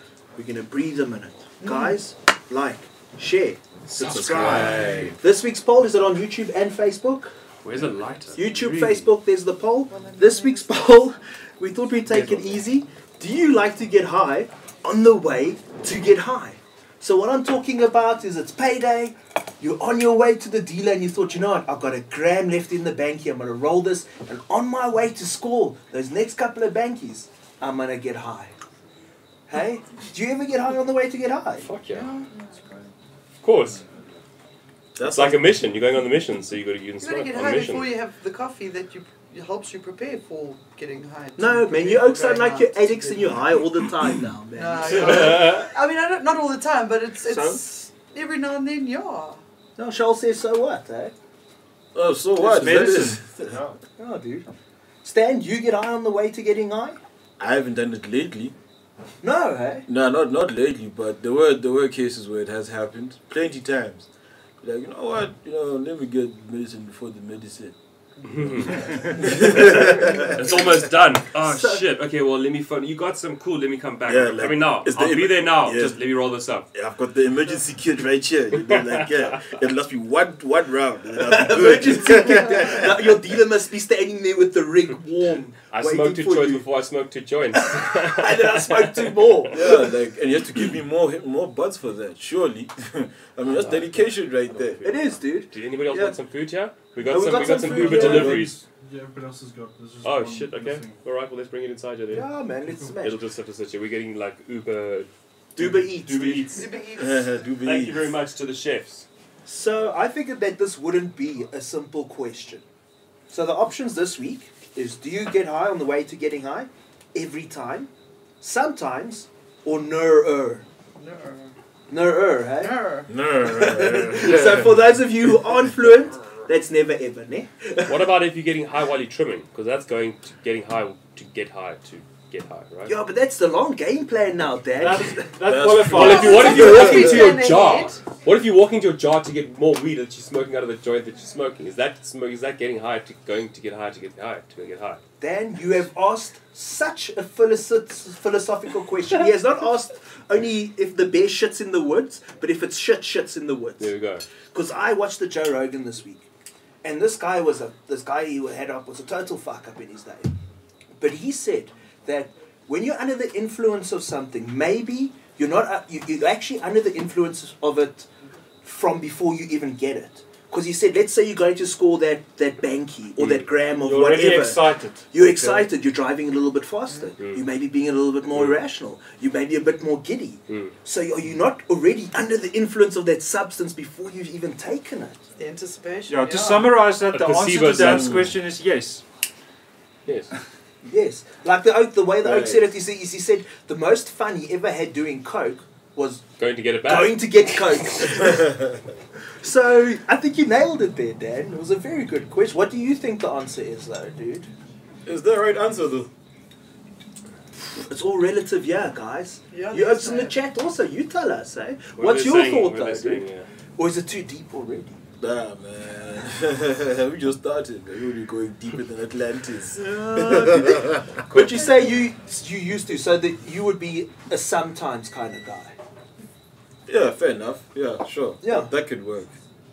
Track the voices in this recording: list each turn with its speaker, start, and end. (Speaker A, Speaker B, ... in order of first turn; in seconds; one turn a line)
Speaker A: 0.3-7.3
Speaker B: 1.6-2.0
Speaker C: 3.9-5.2
Speaker D: 4.0-5.1
Speaker D: 7.6-9.1
Speaker A: 8.3-28.5
Speaker B: 9.9-11.1
Speaker D: 12.1-12.6
Speaker A: 29.5-31.7
Speaker D: 31.6-32.1
Speaker B: 31.9-32.4
Speaker D: 33.4-33.8
Speaker C: 35.0-35.6
Speaker D: 35.0-37.9
Speaker B: 37.0-43.4
Speaker A: 41.4-45.6
Speaker B: 44.5-49.4
Speaker D: 45.0-45.6
Speaker E: 47.2-47.6
Speaker A: 49.8-51.1
Speaker C: 51.9-53.6
Speaker E: 52.4-53.2
Speaker F: 53.4-53.8
Speaker A: 54.0-54.5
Speaker A: 55.0-57.0
Speaker C: 57.4-58.5
Speaker A: 59.2-59.9
Speaker C: 59.9-64.1
Speaker C: 64.6-67.8
Speaker D: 68.2-76.7
Speaker C: 68.4-70.1
Speaker A: 71.4-71.8
Speaker C: 74.0-76.0
Speaker C: 76.7-83.1
Speaker D: 78.7-79.4
Speaker A: 81.2-86.7
Speaker D: 85.7-89.5
Speaker A: 87.6-89.9
Speaker C: 89.5-94.9
Speaker A: 94.8-96.2
Speaker D: 95.5-98.6
Speaker A: 97.0-98.5
Speaker C: 97.7-98.5
Speaker F: 97.8-101.0
Speaker D: 100.0-102.3
Speaker A: 102.1-103.2
Speaker D: 102.8-106.7
Speaker A: 105.5-106.5
Speaker B: 106.5-107.4
Speaker C: 107.0-108.1
Speaker D: 107.6-109.0
Speaker A: 109.5-112.6
Speaker A: 113.3-117.9
Speaker A: 118.4-120.7
Speaker B: 121.0-121.5
Speaker A: 121.9-128.1
Speaker B: 122.6-123.1
Speaker C: 123.1-124.7
Speaker D: 127.8-132.9
Speaker A: 132.9-135.3
Speaker E: 134.8-137.0
Speaker C: 135.4-137.3
Speaker D: 135.9-145.0
Speaker B: 136.0-138.0
Speaker A: 145.2-153.9
Speaker D: 153.8-154.2
Speaker A: 154.5-156.3
Speaker A: 156.8-160.3
Speaker A: 161.0-168.1
Speaker A: 168.6-185.2
Speaker D: 173.2-173.5
Speaker E: 173.7-175.1
Speaker B: 185.4-186.8
Speaker E: 186.1-189.0
Speaker D: 187.1-188.3
Speaker C: 187.7-188.3
Speaker D: 190.1-190.3
Speaker A: 190.8-196.2
Speaker C: 192.2-192.6
Speaker D: 196.4-197.2
Speaker A: 196.8-198.6
Speaker A: 199.4-204.5
Speaker C: 205.0-206.1
Speaker A: 207.8-213.2
Speaker B: 209.5-210.3
Speaker D: 211.9-213.5
Speaker A: 213.8-215.0
Speaker C: 215.2-221.0
Speaker A: 219.7-225.8
Speaker D: 221.3-221.6
Speaker C: 226.9-229.3
Speaker A: 228.4-228.7